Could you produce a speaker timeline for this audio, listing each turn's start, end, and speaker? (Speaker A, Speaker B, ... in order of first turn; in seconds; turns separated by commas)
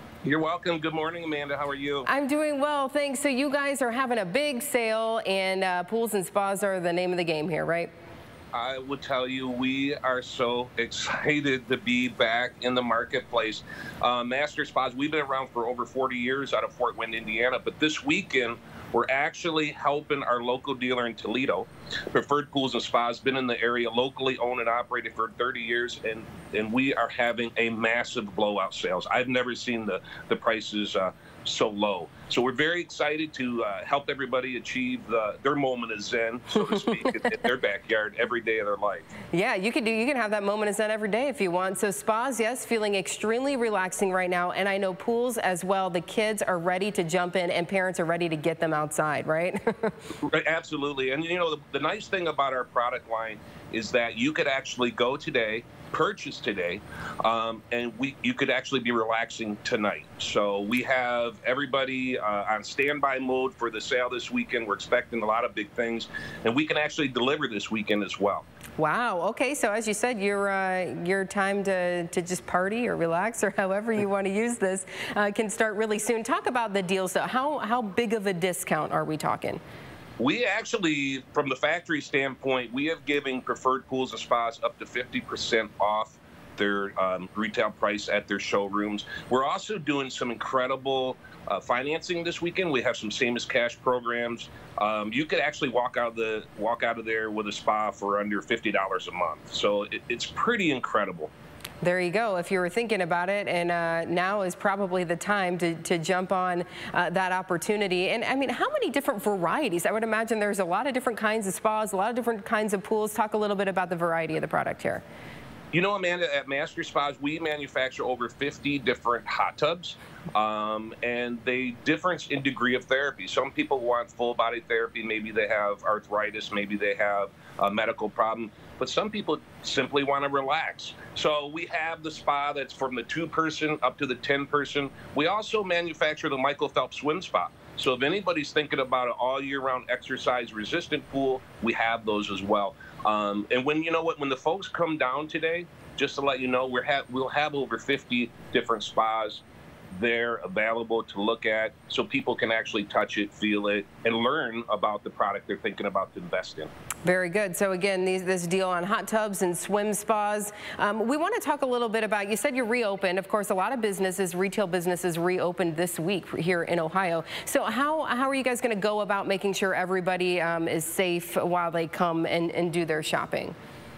Speaker A: 0.2-2.1, Speaker B: 2.0-7.9, Speaker A: 8.5-39.1, Speaker B: 36.7-37.3, Speaker B: 39.3-49.9, Speaker A: 50.2-68.5, Speaker B: 68.8-79.6, Speaker A: 80.2-101.3, Speaker B: 101.8-115.0, Speaker A: 115.7-149.4, Speaker A: 149.9-156.7, Speaker B: 157.1-173.6